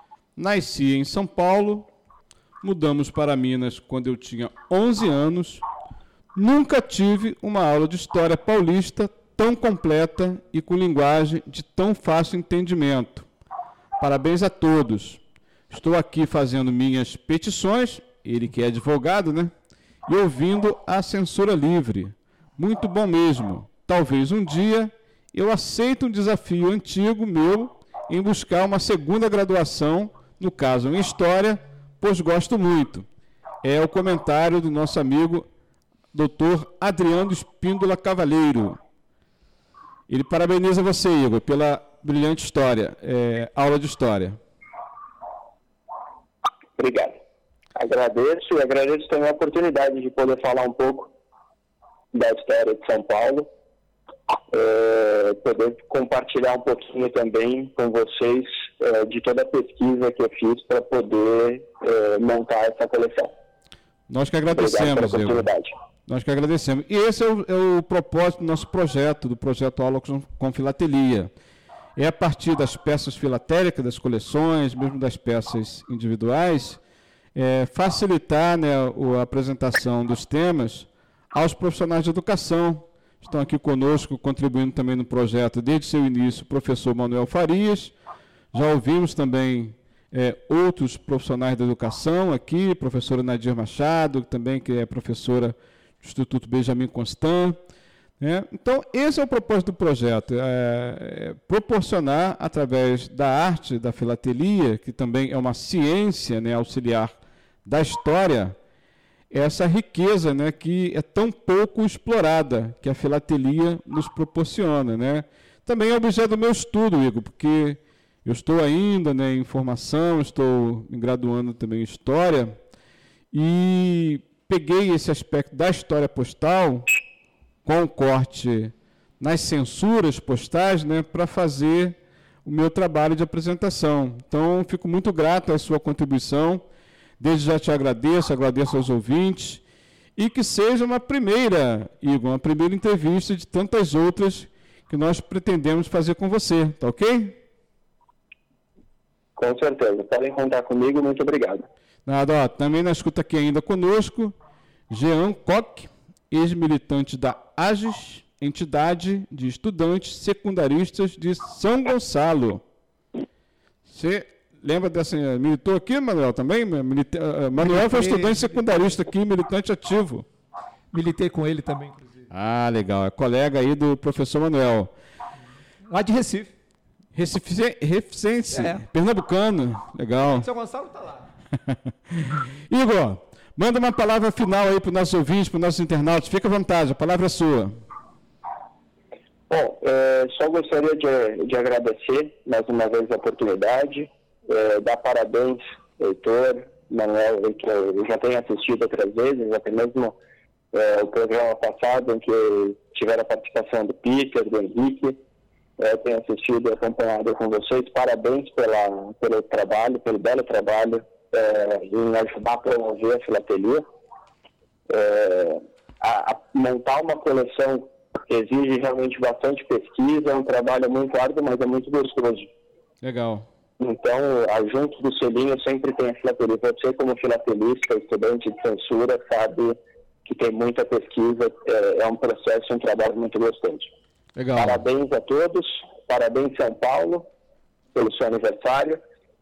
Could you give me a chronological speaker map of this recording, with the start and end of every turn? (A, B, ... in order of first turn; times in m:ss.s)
0:00.4-0:01.9 A
0:02.6-0:05.6 A
0:06.4-0:13.3 A
0:14.0-0:19.5 A
0:20.1-0:33.1 A
0:33.6-0:35.5 A
0:36.1-0:38.8 A
0:40.1-0:44.4 A
0:46.8-0:47.2 B
0:47.8-0:51.1 B
0:52.1-0:53.5 B
0:54.5-1:03.3 B
1:04.1-1:05.4 A
1:04.5-1:05.7 B
1:06.1-1:11.3 A
1:12.0-1:16.8 A
1:17.4-1:27.9 A
1:28.5-1:37.6 A
1:38.2-1:48.6 A
1:49.3-2:02.6 A
2:03.3-2:06.9 A
2:07.6-2:16.7 A
2:17.2-2:19.6 A
2:20.2-2:27.4 A
2:29.4-2:31.7 B
2:32.1-2:34.4 A
2:34.9-2:42.6 A
2:43.9-2:50.3 A
2:47.6-2:48.9 C
2:50.9-2:52.3 C
2:52.3-2:54.9 A
2:55.9-2:56.5 C
2:57.1-3:00.5 A
2:58.5-2:58.8 C
3:00.4-3:01.3 C
3:01.7-3:07.8 A
3:09.5-3:20.2 B
3:20.7-3:25.2 B
3:25.8-3:33.8 B
3:34.9-3:42.5 B
3:43.0-3:43.5 A
3:43.8-3:53.9 B
3:54.4-3:54.8 A
3:54.6-3:57.3 B
3:58.0-3:59.0 B